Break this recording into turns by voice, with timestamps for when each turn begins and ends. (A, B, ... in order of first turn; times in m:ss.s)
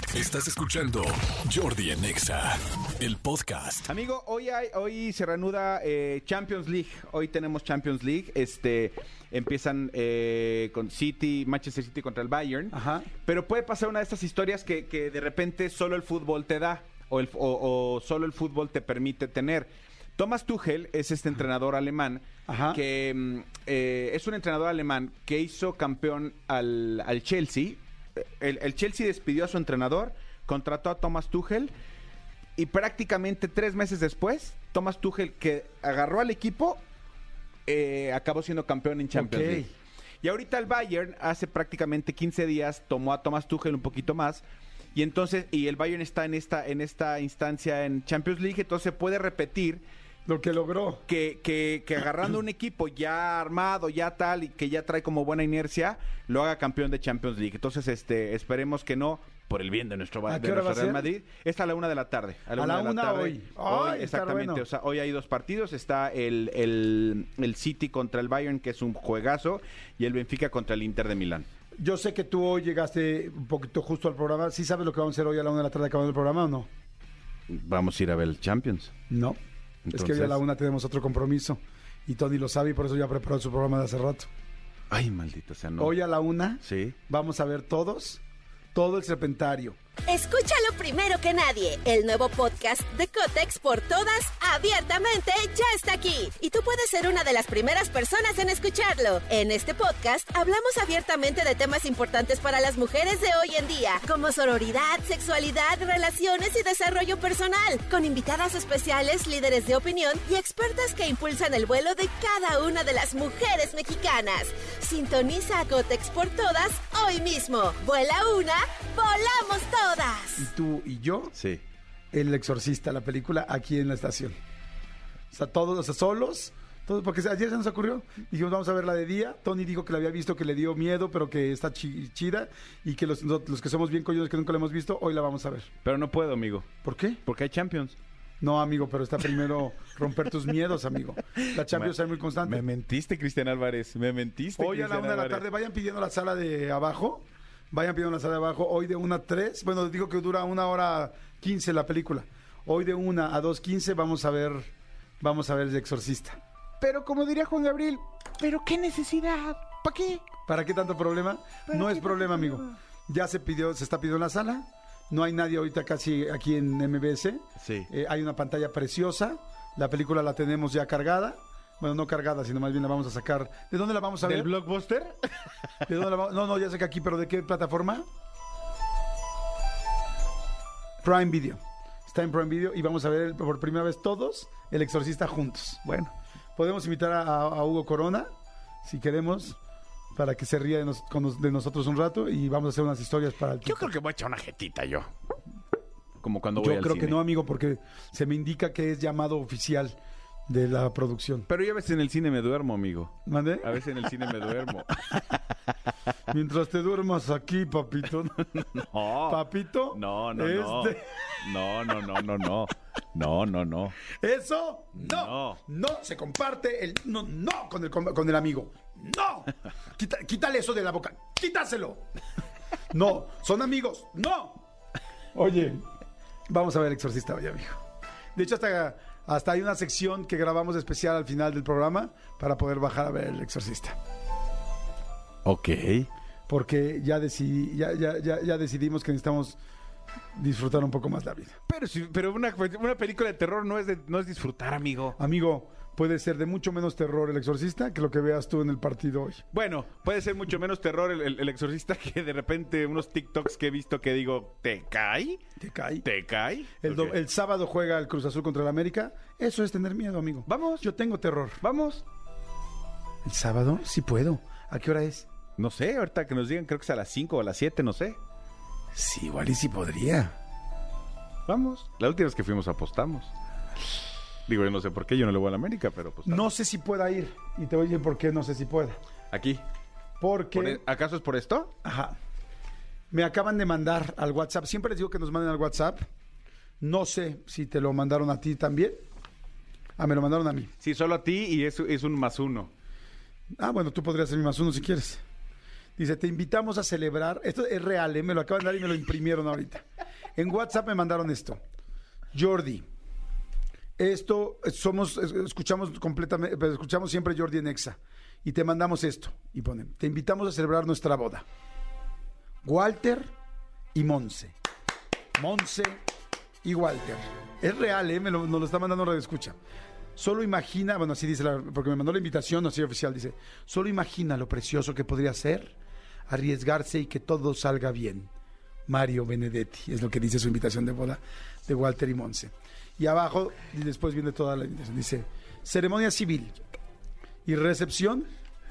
0:00.1-0:03.9 A
0:03.9-0:31.7 B
0:12.7-0:13.1 C
0:22.5-0:22.8 C
0:32.6-0:36.8 B
0:37.7-0:39.7 B
0:39.1-0:39.7 C
0:40.2-0:44.4 B
0:44.9-0:49.8 B
0:50.2-0:51.0 C
0:51.1-1:11.5 B
1:00.2-1:01.1 C
1:02.6-1:04.6 C
1:11.8-1:16.7 C
1:17.5-1:18.9 B
1:19.1-1:19.4 C
1:19.9-1:20.4 B
1:19.9-1:24.3 C
1:24.9-1:25.9 B
1:25.8-1:28.2 C
1:26.6-1:27.0 B
1:28.7-1:29.8 C
1:30.1-2:00.5 D
2:00.4-2:01.3 C
2:01.3-2:01.6 B
2:02.1-2:04.3 C
2:05.3-2:15.7 C
2:15.8-2:16.7 B
2:16.8-2:17.2 C
2:17.2-2:18.0 B
2:18.4-2:22.6 C
2:21.5-2:25.4 B
2:24.6-2:34.7 C
2:35.2-2:36.4 C
2:36.8-2:40.2 B
2:40.5-2:54.5 C
2:41.7-2:42.7 B
2:47.6-2:47.9 B
2:54.2-2:55.2 B
2:55.9-2:58.0 C
3:01.0-3:05.8 C
3:05.8-3:06.1 B
3:06.6-3:08.3 C
3:08.8-3:09.6 C
3:10.1-3:13.9 C
3:13.6-3:15.1 B
3:16.2-3:17.2 B
3:16.6-3:21.5 C
3:21.5-3:25.2 B
3:23.2-3:23.8 C
3:26.3-3:28.6 C
3:28.6-3:29.4 B
3:29.3-3:31.6 C
3:29.9-3:34.0 B
3:34.1-3:42.0 C
3:34.9-3:35.6 B
3:42.9-3:44.6 C
3:45.3-3:45.8 C
3:46.5-3:47.8 C
3:48.3-3:54.0 C
3:55.4-3:56.1 B
3:56.5-3:59.6 C
4:00.3-4:01.6 C
4:01.7-4:05.2 B
4:05.2-4:09.4 C
4:09.5-4:15.4 B
4:15.6-4:16.1 C
4:16.0-4:17.2 B
4:16.8-4:21.6 C
4:20.5-4:20.9 B
4:21.6-4:22.0 B
4:23.2-4:25.3 C
4:25.6-4:28.2 B
4:28.9-4:30.3 C
4:31.5-4:33.3 B
4:34.5-4:36.5 B
4:36.2-4:39.0 C
4:39.3-4:39.6 B
4:40.2-4:40.8 C
4:40.5-4:41.7 B
4:41.8-4:42.2 C
4:43.1-4:46.0 C
4:46.8-4:49.0 C
4:50.0-4:50.7 C
4:50.8-4:52.7 B
4:53.6-4:55.2 C
4:56.0-4:59.8 C
5:00.4-5:01.6 C
5:02.3-5:02.8 C
5:04.0-5:11.4 C
5:12.6-5:13.3 C
5:13.9-5:14.5 C
5:15.4-5:16.0 C
5:16.6-5:19.6 C
5:20.2-5:25.8 C
5:26.3-5:28.3 C
5:28.9-5:36.6 C
5:37.4-5:38.3 C